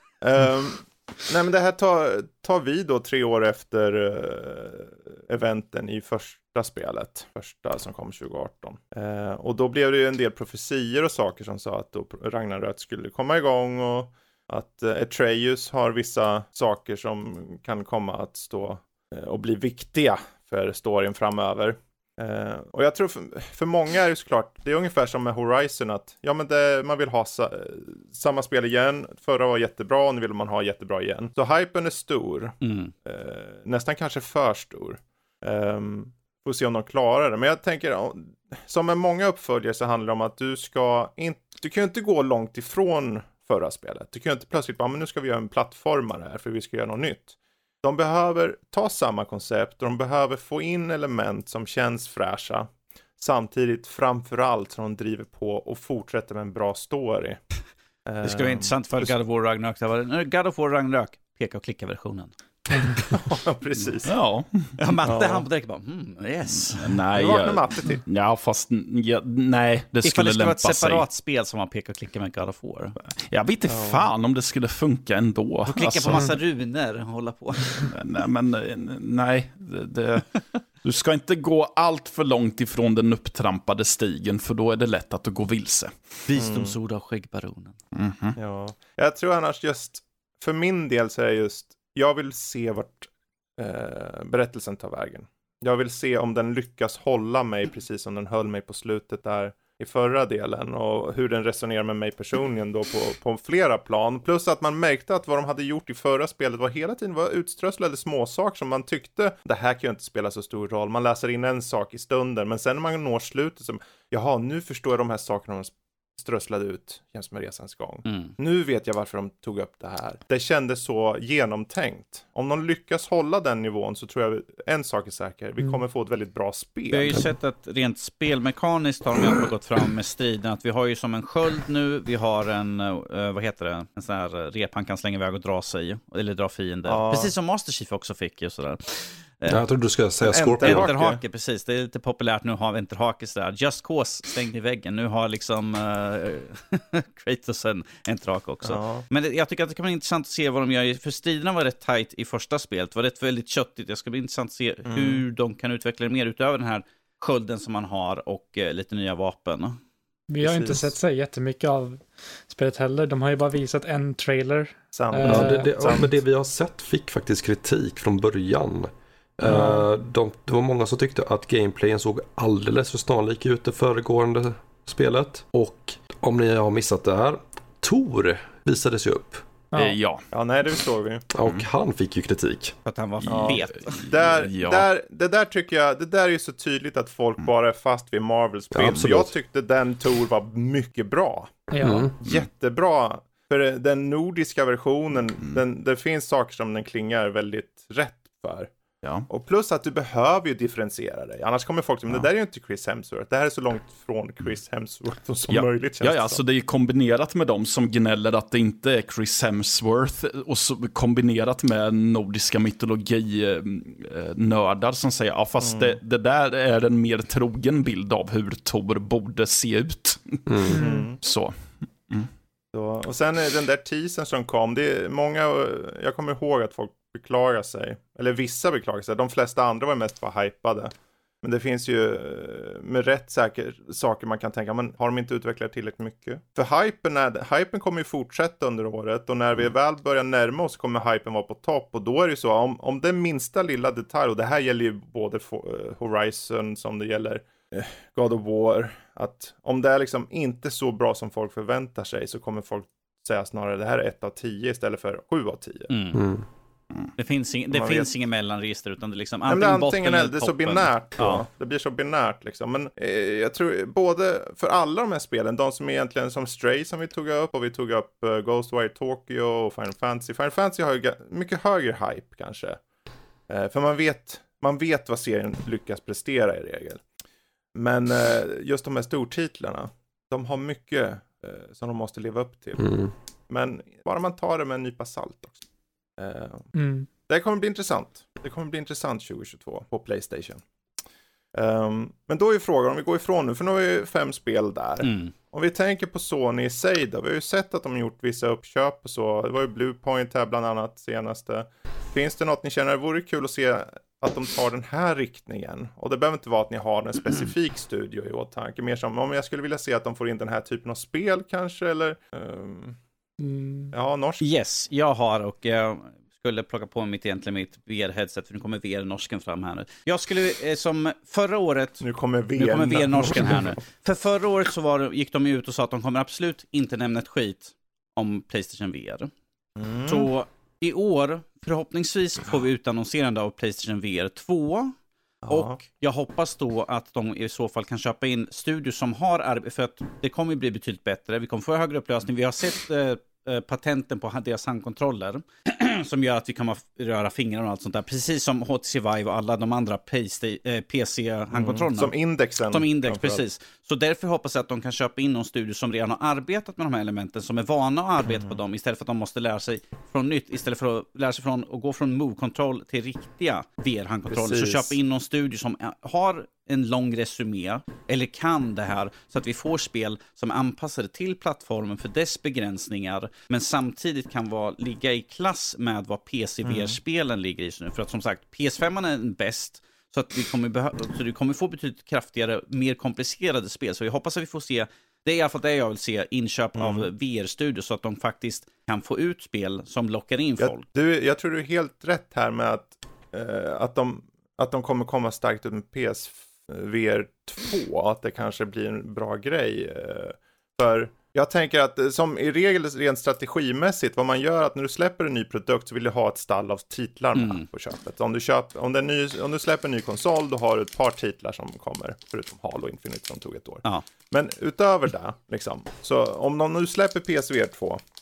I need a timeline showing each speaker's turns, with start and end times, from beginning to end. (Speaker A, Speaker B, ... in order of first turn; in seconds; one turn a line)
Speaker A: 0.2-57.4
Speaker B: 32.6-32.9
Speaker A: 58.0-59.1
Speaker B: 58.2-63.0
Speaker A: 63.1-64.1
Speaker C: 64.0-64.7
Speaker B: 64.8-66.9
Speaker A: 65.0-65.5
Speaker C: 66.6-71.0
Speaker A: 67.1-68.0
Speaker B: 70.0-73.0
Speaker C: 73.1-76.3
Speaker A: 73.7-74.1
Speaker B: 75.7-77.8
Speaker C: 77.8-86.2
Speaker B: 86.3-87.8
Speaker A: 86.3-86.8
Speaker C: 87.9-88.4
Speaker A: 88.4-127.2
Speaker B: 118.0-118.3
Speaker B: 126.9-139.6
Speaker A: 136.8-137.3
Speaker D: 139.5-140.9
Speaker A: 140.2-141.2
Speaker B: 140.6-159.8
Speaker A: 148.6-149.0
Speaker A: 154.9-155.2
Speaker E: 160.3-165.9
Speaker A: 160.4-160.9
Speaker A: 164.9-166.1
Speaker D: 165.2-179.4
Speaker E: 169.4-169.8
Speaker E: 179.7-180.0
Speaker C: 179.7-180.3
Speaker A: 180.3-181.3
Speaker D: 181.3-182.8
Speaker B: 182.8-184.0
Speaker C: 183.2-184.9
Speaker A: 183.3-191.6
Speaker D: 188.7-189.3
Speaker E: 191.7-192.0
Speaker D: 191.8-192.2
Speaker A: 192.2-198.7
Speaker C: 199.0-199.3
Speaker A: 199.3-206.4
Speaker C: 205.5-222.3
Speaker A: 215.6-216.0
Speaker D: 220.5-220.8
Speaker E: 220.7-221.1
Speaker A: 220.8-221.2
Speaker A: 222.7-255.9
Speaker B: 255.9-256.2
Speaker D: 256.1-256.4
Speaker B: 257.2-261.4
Speaker A: 257.7-258.1
Speaker A: 259.5-272.8
Speaker A: 273.5-277.0
Speaker A: 277.7-283.0
Speaker D: 282.8-283.1
Speaker A: 283.5-285.5
Speaker A: 286.2-286.7
Speaker E: 286.7-287.1
Speaker A: 287.3-290.6
Speaker A: 291.5-313.0
Speaker B: 295.0-295.3
Speaker E: 313.4-313.9
Speaker A: 313.9-314.4
Speaker B: 314.4-322.0
Speaker A: 322.0-323.8
Speaker B: 322.6-329.3
Speaker A: 329.8-330.3
Speaker B: 330.1-334.9
Speaker A: 335.4-335.8
Speaker B: 335.5-352.1
Speaker A: 351.5-353.4
Speaker B: 352.7-390.8
Speaker A: 358.2-358.6
Speaker A: 364.3-364.9
Speaker A: 376.6-377.0
Speaker A: 386.8-387.1
Speaker A: 390.6-418.0
Speaker B: 407.3-407.6